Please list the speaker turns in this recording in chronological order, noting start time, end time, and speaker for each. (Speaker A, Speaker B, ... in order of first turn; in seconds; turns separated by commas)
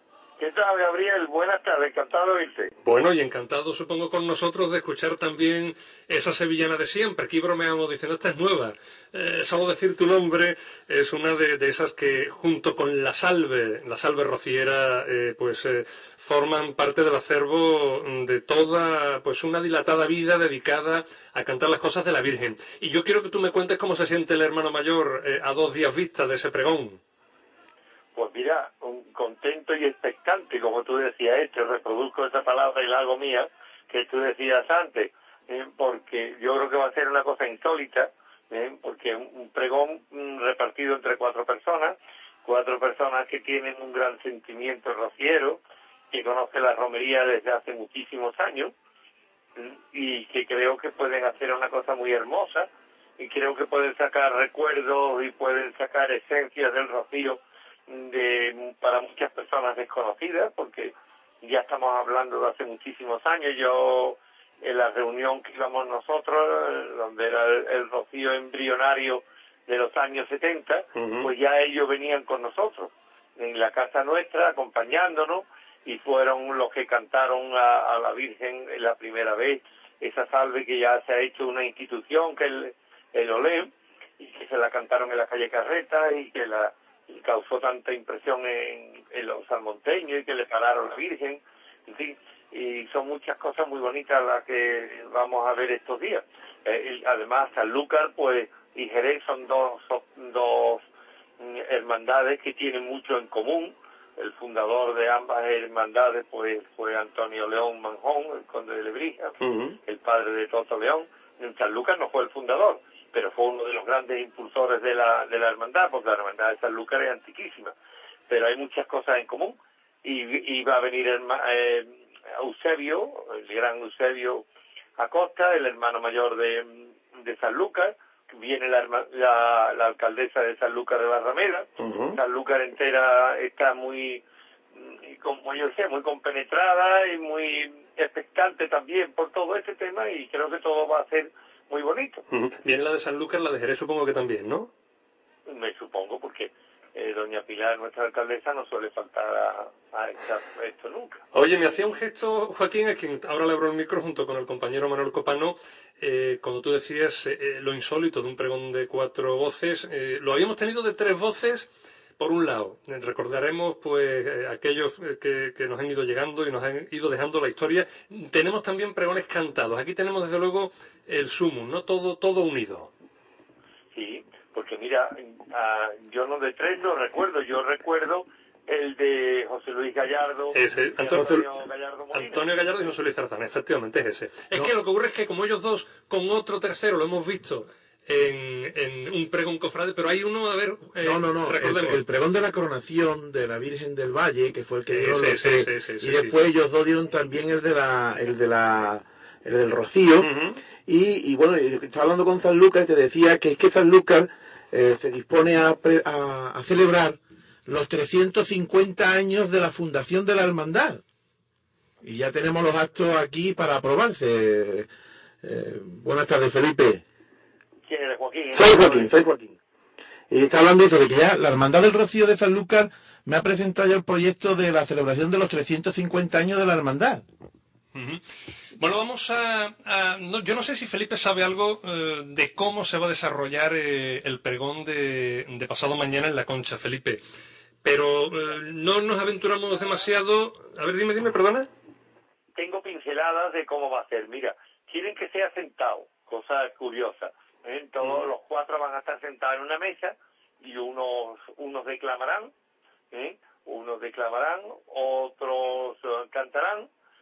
Speaker A: 0.4-2.7, Speaker B: 2.8-27.0, Speaker A: 28.1-45.6, Speaker A: 46.1-48.7, Speaker A: 49.6-100.8, Speaker B: 70.9-71.3, Speaker A: 101.4-117.7, Speaker B: 109.4-109.8, Speaker A: 118.3-124.5, Speaker A: 125.0-142.2, Speaker B: 131.8-132.2, Speaker B: 142.3-144.7, Speaker A: 145.5-151.2, Speaker B: 151.3-161.7, Speaker B: 162.2-172.9, Speaker A: 173.9-182.4, Speaker B: 180.5-181.5, Speaker B: 182.1-192.0, Speaker C: 191.0-200.3, Speaker B: 194.9-196.3, Speaker B: 200.2-200.6, Speaker C: 200.8-211.0, Speaker C: 212.0-214.9, Speaker C: 215.4-217.0, Speaker A: 217.9-219.1, Speaker C: 218.5-219.6, Speaker C: 220.3-227.2, Speaker B: 227.9-228.2, Speaker B: 228.7-237.2, Speaker B: 237.8-241.7, Speaker A: 242.6-252.5, Speaker B: 248.0-248.3, Speaker A: 253.1-256.9